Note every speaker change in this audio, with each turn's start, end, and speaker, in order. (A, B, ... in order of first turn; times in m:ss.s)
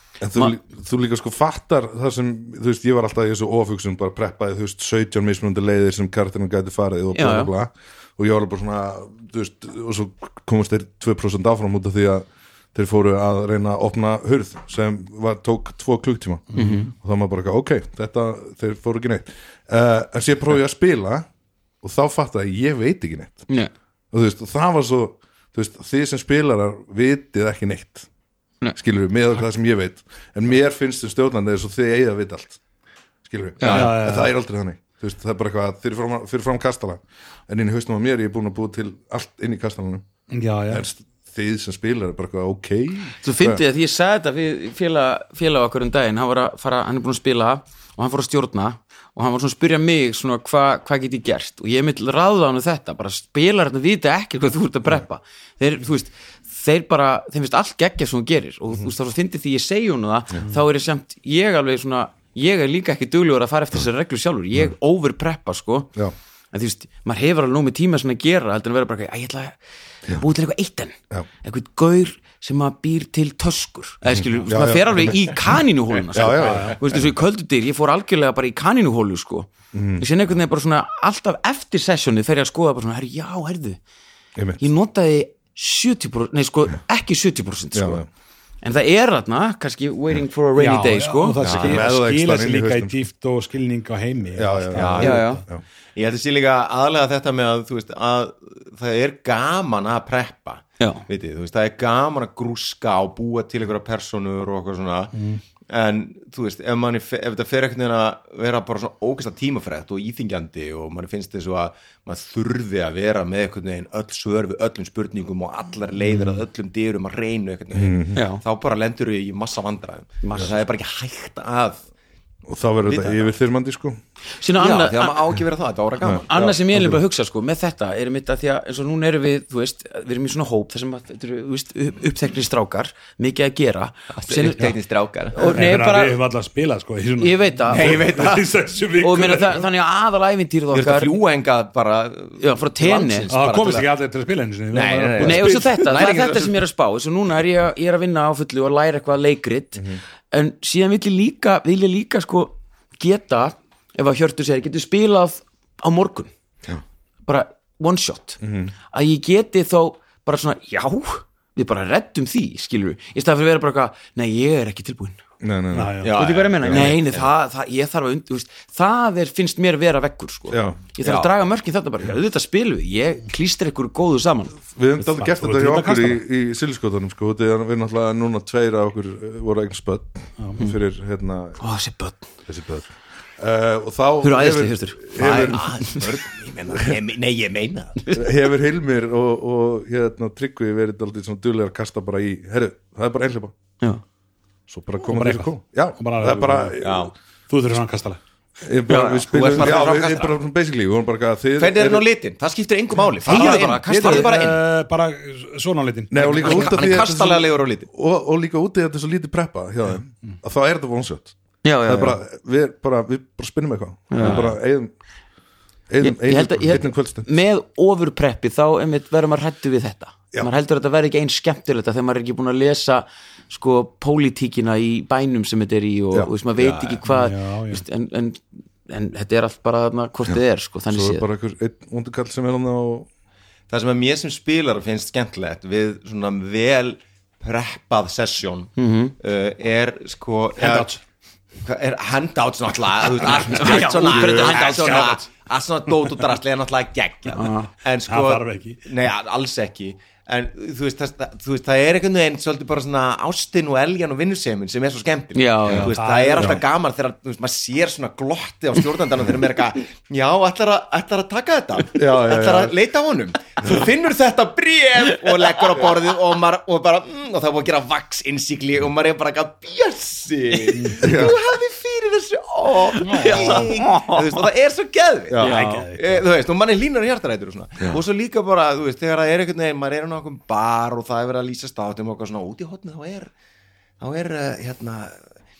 0:00.2-0:21.3 A
0:07.1-0:07.5 B
0:16.5-0:16.9 C
0:16.6-0:16.9 B
0:21.8-0:23.5 A
0:24.1-0:28.1 A
0:28.7-0:32.6 A
0:33.2-0:40.0 A
0:33.6-0:33.9 D
0:33.7-0:34.3 C
0:40.3-0:40.8 C
0:40.7-0:43.6 A
0:43.2-1:05.9 B
1:06.5-1:09.6 B
1:10.1-1:23.8 B
1:14.2-1:15.5 A
1:16.1-1:16.9 A
1:16.4-1:16.8 C
1:19.7-1:20.1 A
1:24.4-1:24.6 A
1:24.6-1:28.0 B
1:27.7-1:28.0 A
1:28.6-1:31.4 B
1:30.6-1:35.4 C
1:31.4-1:31.8 D
1:31.5-1:33.0 A
1:34.4-1:35.6 A
1:34.7-1:35.2 D
1:35.0-1:35.4 B
1:35.9-1:45.1 D
1:40.8-1:41.0 B
1:45.1-1:45.4 C
1:45.7-2:01.8 D
1:57.7-1:58.2 A
1:58.1-1:58.4 B
2:00.2-2:00.5 B
2:02.5-2:04.0 A
2:02.9-2:03.3 D
2:04.4-2:05.2 B
2:04.6-2:06.6 D
2:06.0-2:07.0 A
2:06.3-2:14.8 B
2:14.1-2:15.5 D
2:15.3-2:16.2 B
2:15.4-2:19.7 C
2:17.2-2:18.1 B
2:17.7-2:18.5 D
2:19.0-2:21.1 B
2:20.7-2:23.9 D
2:22.4-2:23.3 B
2:23.3-2:25.9 C
2:24.7-2:26.6 D
2:25.2-2:36.3 B
2:37.2-2:38.4 B
2:38.4-2:38.7 A
2:38.9-2:45.2 B
2:45.4-2:46.0 A
2:45.7-2:46.1 C
2:46.0-2:47.3 D
2:46.2-2:54.6 B
2:46.6-2:47.0 A
2:50.5-2:50.8 A
2:51.0-2:51.3 D
2:54.7-3:01.6 A
2:55.0-2:56.2 C
3:00.4-3:00.6 C
3:01.6-3:02.2 B
3:02.5-3:05.7 A
3:04.2-3:06.1 B
3:05.2-3:08.1 D
3:08.1-3:13.5 A
3:14.7-3:17.1 A
3:15.1-3:16.8 C
3:16.8-3:17.1 D
3:17.5-3:18.2 C
3:18.6-3:22.0 A
3:18.9-3:19.8 B
3:19.3-3:20.4 D
3:21.6-3:24.6 D
3:23.2-3:26.9 C
3:23.2-3:24.3 B
3:26.1-3:34.9 A
3:26.3-3:27.9 D
3:31.6-3:32.2 B
3:34.1-3:34.5 B
3:35.9-3:37.3 A
3:36.0-3:51.2 B
3:46.6-3:47.0 D
3:47.0-3:47.8 C
3:50.9-3:53.1 A
3:53.7-4:00.9 D
3:58.8-3:59.1 B
4:00.6-4:01.0 C
4:01.6-4:43.3 D
4:03.2-4:05.2 B
4:03.8-4:05.2 C
4:07.3-4:07.6 B
4:07.4-4:08.8 C
4:15.3-4:16.0 B
4:15.9-4:16.6 C
4:21.9-4:22.8 A
4:30.7-4:31.0 C
4:31.0-4:31.4 A
4:32.9-4:34.4 B
4:33.0-4:33.7 C
4:35.3-4:35.6 A
4:35.4-4:35.8 B
4:35.4-4:36.2 C
4:44.0-4:45.2 D